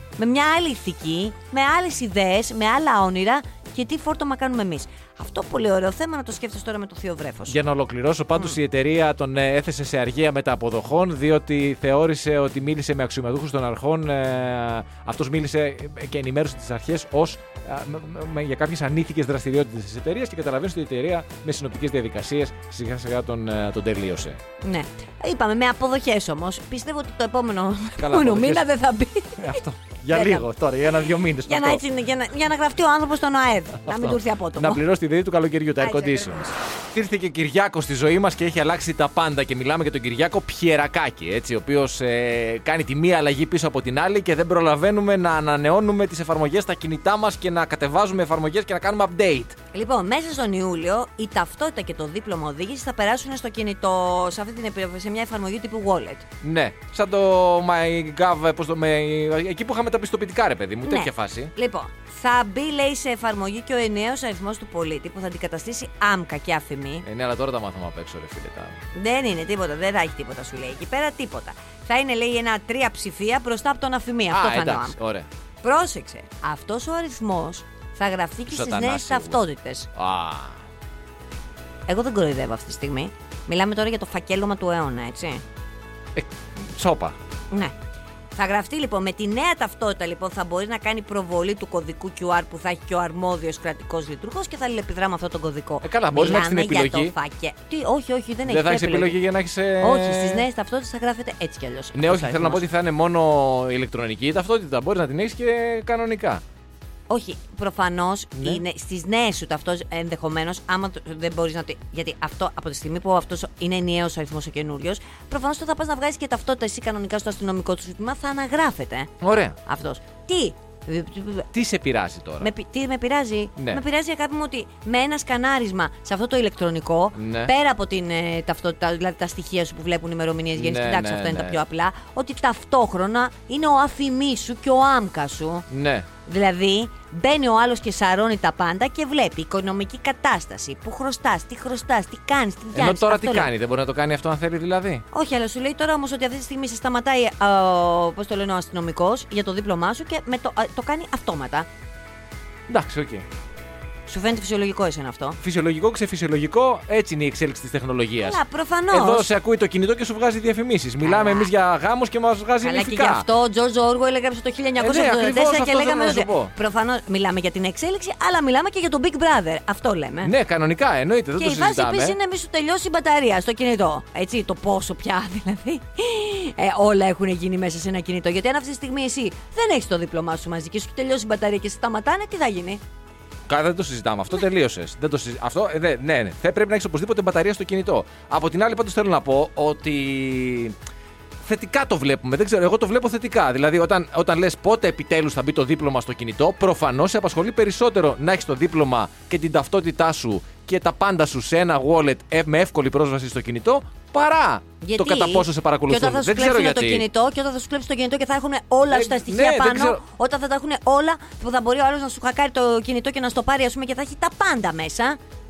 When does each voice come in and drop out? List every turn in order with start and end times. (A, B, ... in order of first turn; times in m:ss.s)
0:00.2-0:07.6 A
0:07.5-0:24.4 B
0:24.6-0:30.5 A
0:28.0-0:28.7 B
0:29.4-0:31.8 B
0:31.5-0:34.8 A
0:33.8-0:49.6 B
0:35.8-0:36.6 A
0:49.7-0:56.2 A
0:56.4-1:01.5 B
1:00.8-1:07.1 A
1:07.0-1:08.8 B
1:08.9-1:15.0 A
1:14.3-1:15.3 B
1:15.6-1:19.9 A
1:18.5-1:19.4 B
1:20.0-1:20.6 B
1:21.9-1:25.4 A
1:26.2-1:27.2 B
1:28.4-1:39.2 A
1:35.8-1:37.1 B
1:38.5-1:40.5 B
1:39.8-1:42.6 A
1:41.9-1:46.4 B
1:47.1-1:59.1 A
1:48.4-1:48.6 B
1:59.2-1:59.6 B
1:59.6-2:01.5 A
2:01.5-2:02.5 B
2:02.4-2:15.6 A
2:03.6-2:03.8 B
2:07.2-2:07.5 B
2:10.6-2:11.6 B
2:15.7-2:16.1 B
2:16.2-2:23.5 A
2:22.7-2:25.0 B
2:25.1-2:31.7 A
2:32.7-2:33.2 B
2:34.1-2:35.4 A
2:35.4-2:43.3 B
2:38.2-2:39.3 A
2:41.0-2:41.5 A
2:42.6-2:50.3 A
2:44.8-2:46.5 B
2:50.2-2:52.2 B
2:51.4-3:02.8 A
3:03.5-3:10.8 B
3:11.4-3:27.1 B
3:24.8-3:35.2 A
3:28.9-3:30.0 B